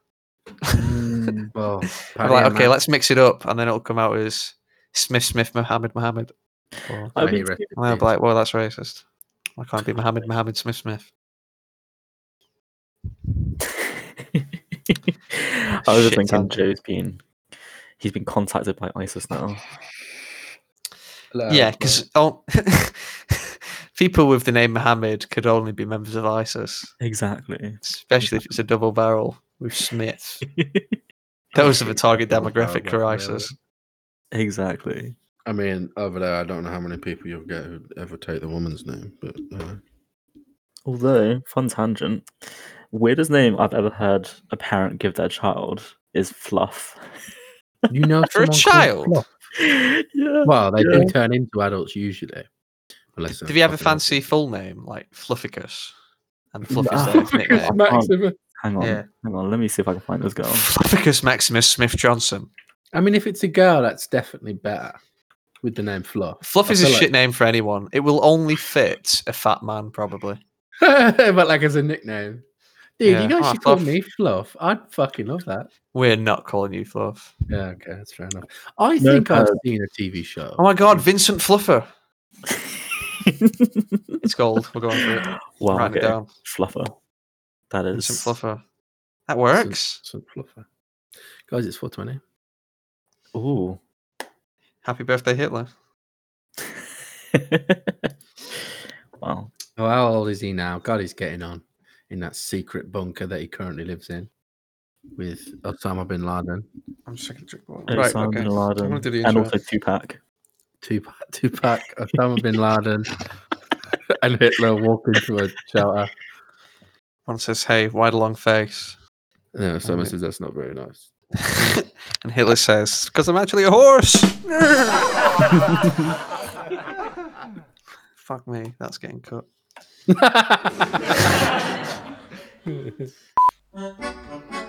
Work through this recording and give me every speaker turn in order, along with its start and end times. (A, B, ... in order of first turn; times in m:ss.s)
0:00.7-0:01.5 A
0:01.5-0:02.8 B
0:02.2-0:06.3 C
0:06.9-0:07.1 C
0:07.2-0:07.8 A
0:07.2-0:08.1 B
0:07.8-0:09.0 C
0:09.6-0:11.1 C
0:13.8-0:17.2 A
0:15.9-0:16.6 C
0:18.0-0:19.7 A
0:21.3-0:22.0 B
0:21.5-0:26.9 C
0:27.0-0:28.6 A
0:27.8-0:30.4 C
0:30.4-0:31.0 A
0:31.5-0:33.5 C
0:31.5-0:33.5 B
0:34.3-0:35.2 A
0:35.5-0:39.8 B
0:40.8-0:42.3 A
0:42.9-0:47.0 A
0:47.9-0:49.3 B
0:48.3-0:49.2 C
0:49.6-0:51.1 A
0:50.4-0:52.5 B
0:53.2-0:54.3 B
0:53.5-0:55.9 C
0:56.5-0:57.8 C
0:56.8-0:58.4 B
0:56.8-1:00.7 A
0:58.8-0:59.1 C
1:00.5-1:02.5 C
1:02.9-1:05.0 B
1:05.6-1:07.1 B
1:06.4-1:10.4 C
1:10.8-1:12.4 B
1:13.0-1:15.7 B
1:13.1-1:13.9 C
1:15.9-1:17.3 C
1:17.5-1:21.0 B
1:19.0-1:19.6 A
1:20.6-1:21.9 C
1:23.2-1:24.2 A
1:24.2-1:26.3 C
1:25.0-1:26.9 A
1:27.7-1:28.4 A
1:27.9-1:28.6 C
1:29.3-1:30.0 C
1:29.5-1:30.6 B
1:31.5-1:32.2 B
1:33.3-1:33.8 A
1:34.8-1:35.7 C
1:37.3-1:38.1 A
1:39.2-1:39.5 A
1:39.8-1:44.3 B
1:45.2-1:46.7 B
1:47.1-1:49.5 C
1:47.9-1:50.2 A
1:50.8-1:53.1 B
1:54.2-1:56.1 B
1:57.3-1:59.0 C
1:59.5-2:01.0 B
1:59.8-2:00.1 C
2:01.4-2:05.0 C
2:08.2-2:09.5 C
2:10.1-2:11.0 B
2:12.7-2:13.0 B